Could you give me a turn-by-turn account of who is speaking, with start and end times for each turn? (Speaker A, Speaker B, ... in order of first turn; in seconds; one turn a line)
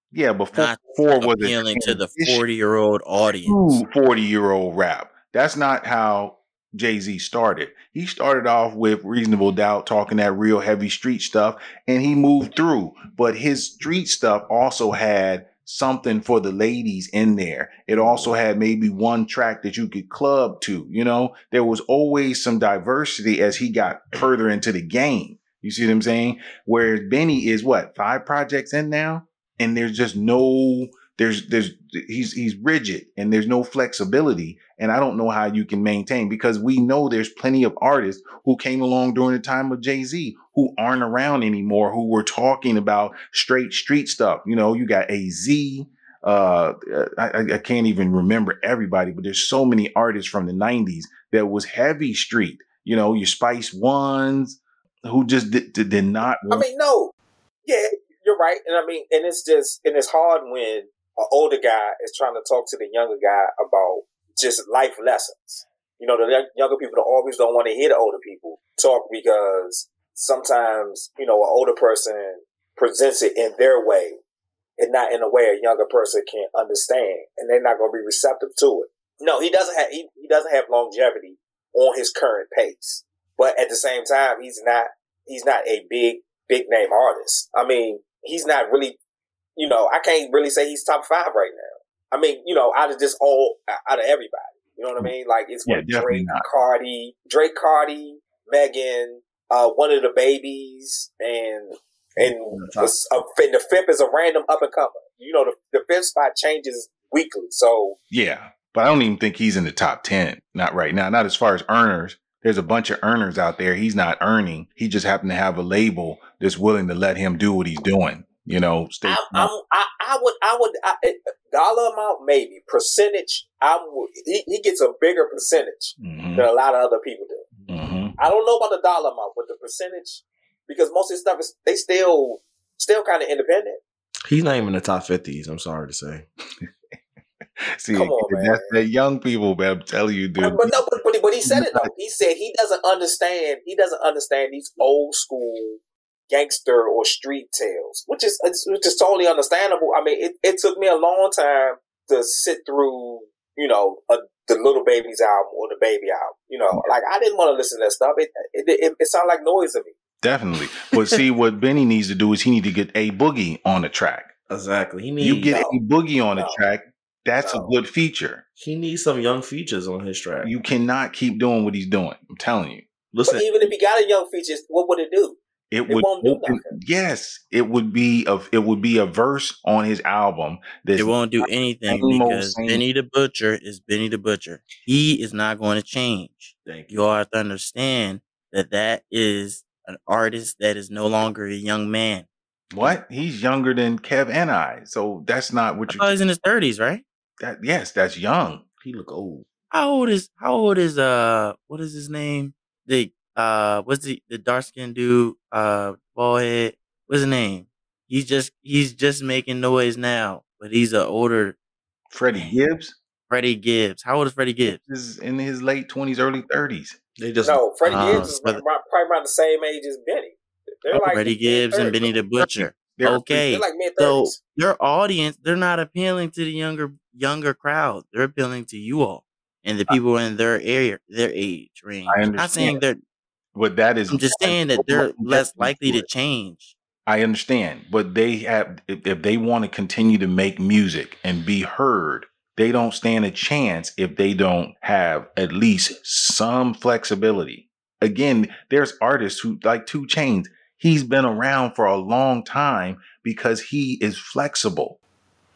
Speaker A: 0.1-2.4
Speaker B: 0.5-3.8
Speaker A: 3.4-56.6
Speaker C: 56.5-57.1
Speaker C: 57.6-74.2
Speaker C: 74.8-89.0
Speaker C: 89.5-108.0
Speaker A: 95.7-96.5
Speaker D: 102.2-102.9
Speaker A: 108.1-119.5
Speaker C: 119.0-127.5
Speaker A: 126.0-126.5
Speaker A: 127.7-128.1
Speaker C: 128.2-133.8
Speaker D: 134.3-136.2
Speaker A: 137.6-140.8
Speaker C: 137.9-138.7
Speaker C: 140.4-159.9
Speaker A: 141.4-141.9
Speaker A: 160.2-164.3
Speaker D: 164.5-165.5
Speaker A: 165.2-168.4
Speaker C: 165.5-165.7
Speaker D: 168.6-170.5
Speaker A: 170.4-172.8
Speaker D: 173.1-173.7
Speaker C: 173.3-175.4
Speaker A: 175.7-182.8
Speaker C: 175.9-176.7
Speaker B: 180.9-192.3
Speaker D: 186.6-187.1
Speaker A: 192.7-196.2
Speaker B: 195.9-197.0
Speaker A: 197.4-198.6
Speaker D: 198.8-199.4
Speaker B: 199.7-211.6
Speaker A: 212.1-213.0
Speaker B: 213.3-214.8
Speaker A: 214.6-217.0
Speaker D: 217.2-218.3
Speaker C: 217.4-222.0
Speaker B: 217.8-218.6
Speaker B: 220.9-233.0
Speaker A: 222.4-223.4
Speaker C: 223.3-224.4
Speaker A: 232.1-232.8
Speaker A: 233.5-236.1
Speaker B: 234.1-236.7
Speaker A: 237.1-255.0